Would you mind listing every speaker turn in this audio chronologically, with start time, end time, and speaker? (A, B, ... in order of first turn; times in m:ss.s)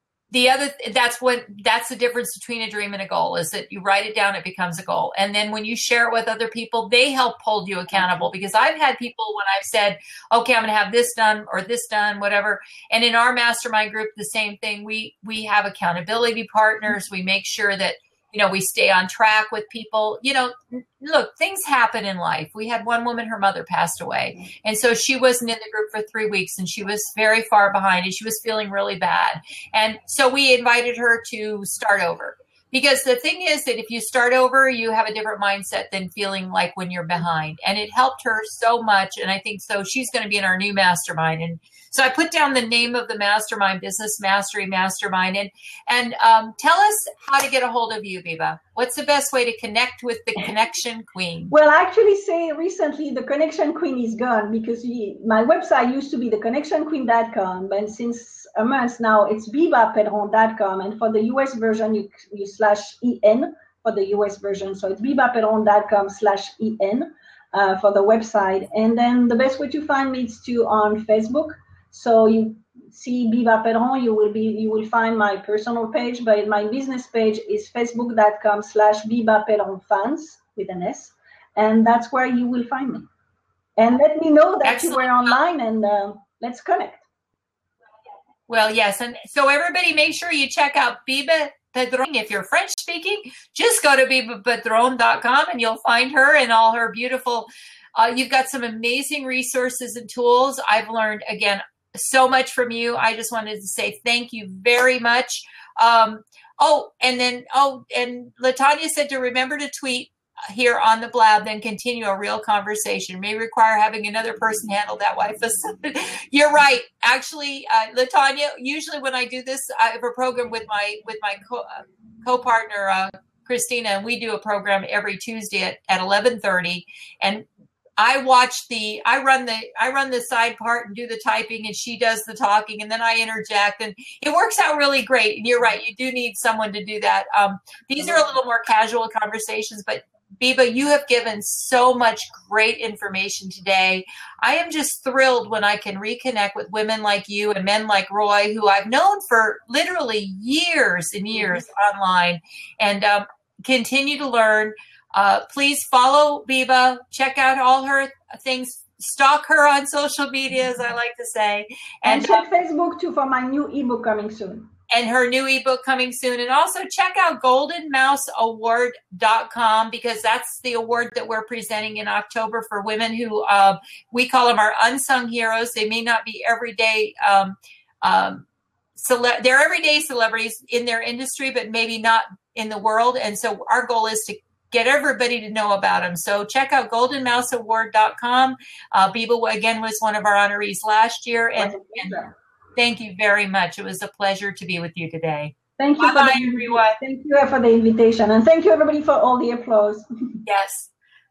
0:00.3-0:51.5 A
0:07.9-0:08.2 B
0:51.5-1:23.1 B
1:23.8-1:27.0 B
1:24.6-1:25.3 A
1:28.5-2:07.5 A
2:08.0-2:42.4 A
2:42.0-2:44.7 B
2:44.9-2:58.4 A
2:59.0-3:12.1 A
3:11.6-3:12.3 B
3:12.8-3:17.0 A
3:15.8-3:20.1 B
3:20.4-3:20.9 A